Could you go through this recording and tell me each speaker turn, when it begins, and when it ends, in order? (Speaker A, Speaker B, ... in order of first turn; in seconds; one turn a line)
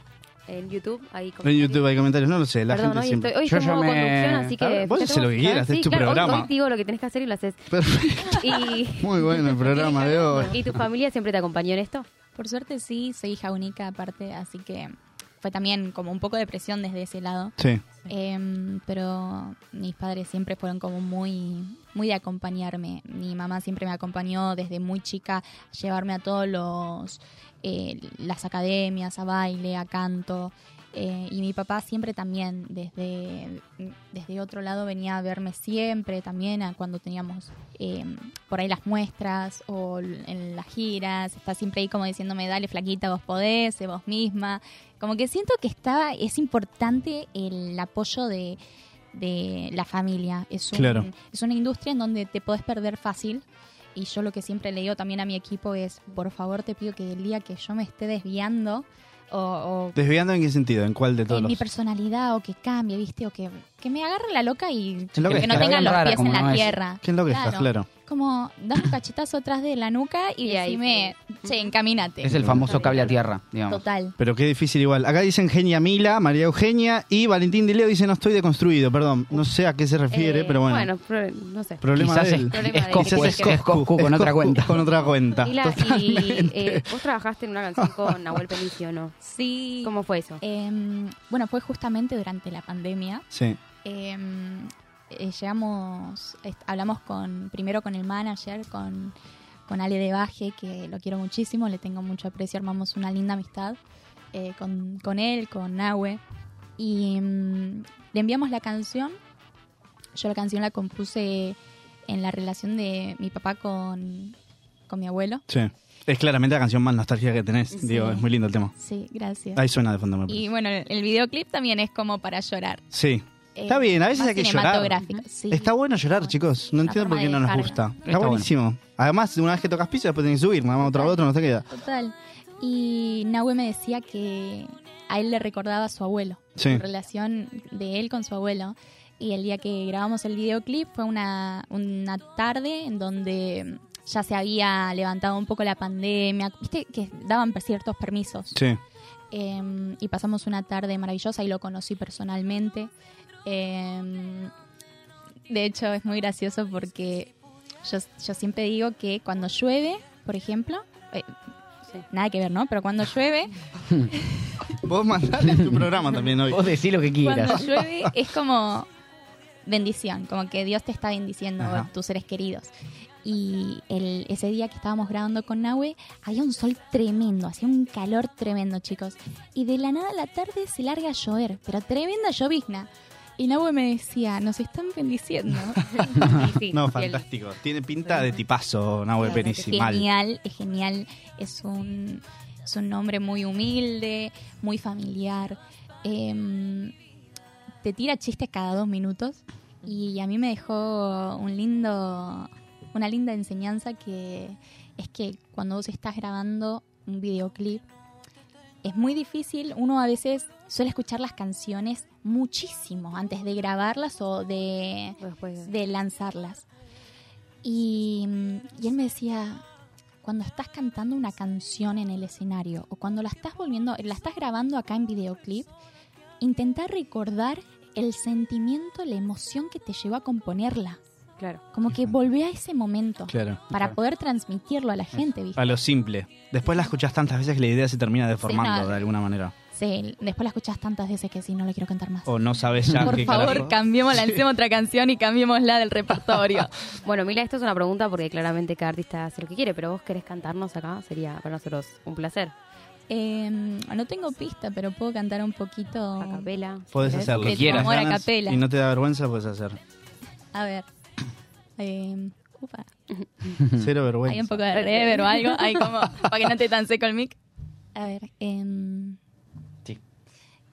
Speaker A: 0.5-2.0
Speaker B: 1.4-3.3
Speaker A: 2.7-7.7
Speaker C: 3.4-4.5
Speaker B: 4.5-6.5
Speaker B: 7.7-10.8
Speaker A: 8.2-12.1
Speaker D: 12.3-17.6
Speaker B: 17.6-17.8
Speaker D: 18.1-48.6
Speaker D: 49.1-60.0
Speaker B: 50.7-51.1
Speaker B: 60.0-61.6
Speaker D: 61.3-73.1
Speaker B: 65.2-67.9
Speaker C: 65.2-66.7
Speaker A: 70.4-71.7
Speaker C: 72.2-73.8
Speaker B: 72.3-72.7
Speaker A: 72.5-73.2
Speaker D: 73.7-74.2
Speaker B: 74.2-80.9
Speaker A: 80.1-81.8
Speaker B: 81.8-86.9
Speaker C: 81.9-84.8
Speaker A: 82.5-83.7
Speaker A: 85.4-89.2
Speaker B: 87.8-88.5
Speaker D: 89.2-93.3
Speaker A: 89.8-90.4
Speaker B: 93.3-93.6
Speaker D: 93.8-99.2
Speaker D: 99.7-103.8
Speaker D: 104.3-106.2
Speaker D: 106.8-109.2
Speaker D: 110.2-114.4
Speaker D: 114.9-115.4
Speaker B: 115.5-118.7
Speaker D: 117.8-119.7
Speaker B: 119.6-120.5
Speaker D: 120.3-122.8
Speaker B: 122.9-125.0
Speaker D: 123.5-128.0
Speaker B: 125.5-131.7
Speaker C: 128.1-128.5
Speaker D: 130.8-148.6
Speaker B: 136.6-136.8
Speaker B: 148.5-148.8
Speaker D: 149.3-152.9
Speaker D: 153.4-154.5
Speaker D: 155.5-157.3
Speaker D: 157.8-161.3
Speaker D: 162.0-163.6
Speaker B: 164.8-166.7
Speaker C: 166.5-167.6
Speaker D: 167.2-168.9
Speaker B: 167.5-168.1
Speaker D: 169.7-172.7
Speaker B: 171.6-171.9
Speaker D: 173.2-186.2
Speaker A: 185.9-187.2
Speaker B: 186.7-190.1
Speaker A: 189.2-189.8
Speaker D: 189.3-196.9
Speaker D: 197.8-207.8
Speaker D: 208.8-216.7
Speaker A: 215.2-215.7
Speaker D: 217.6-219.6
Speaker D: 220.2-225.7
Speaker D: 226.4-231.0
Speaker D: 231.7-235.8
Speaker B: 233.3-233.9
Speaker B: 235.6-239.5
Speaker D: 238.4-239.0
Speaker D: 239.7-246.7
Speaker B: 242.3-244.4
Speaker A: 247.0-252.5
Speaker D: 253.1-258.6
Speaker A: 256.2-257.9
Speaker B: 256.9-259.8
Speaker C: 257.4-257.9
Speaker D: 260.5-260.9
Speaker D: 261.8-262.9
Speaker B: 263.7-264.6
Speaker D: 264.2-267.4
Speaker A: 264.7-265.8
Speaker D: 267.9-269.2